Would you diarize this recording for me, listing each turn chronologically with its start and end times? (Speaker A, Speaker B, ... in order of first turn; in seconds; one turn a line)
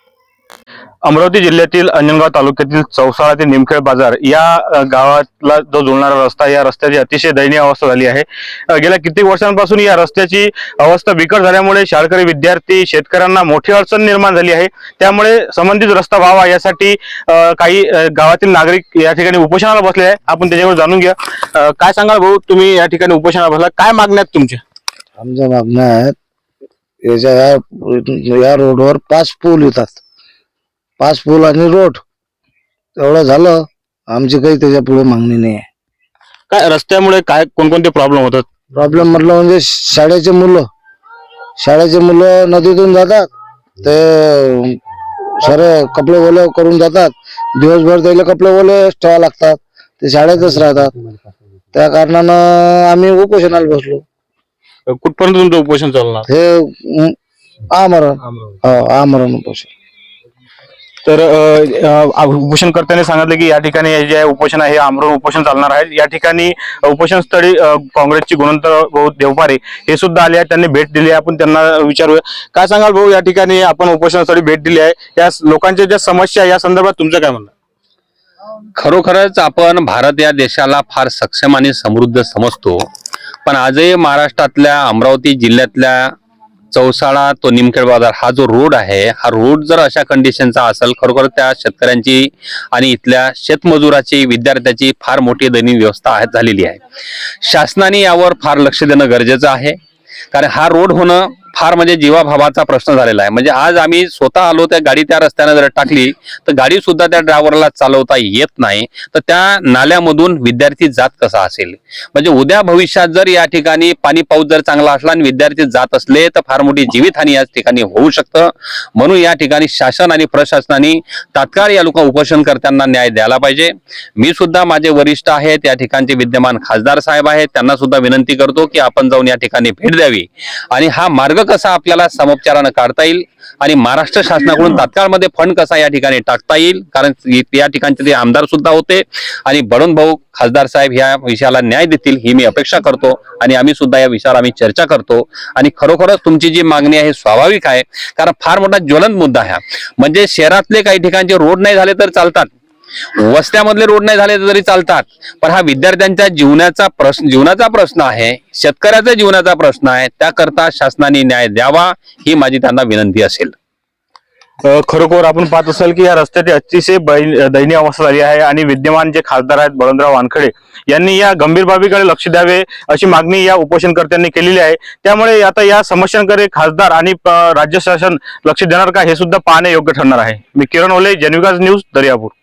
Speaker A: 1.0-24.6
Speaker B: 25.2-26.1
Speaker B: 27.0-30.0
Speaker B: 31.0-32.0
Speaker B: 33.0-35.6
Speaker A: 36.5-38.5
Speaker B: 38.7-40.7
Speaker B: 41.6-43.3
Speaker B: 43.8-44.8
Speaker B: 45.4-50.9
Speaker B: 51.7-54.0
Speaker A: 54.9-56.3
Speaker B: 56.3-57.2
Speaker B: 57.7-59.7
Speaker A: 61.0-77.5
Speaker C: 78.8-82.8
Speaker C: 83.5-86.1
Speaker C: 86.7-96.8
Speaker C: 97.4-99.8
Speaker C: 100.3-152.5
Speaker C: 153.2-163.6
Speaker A: 164.6-182.3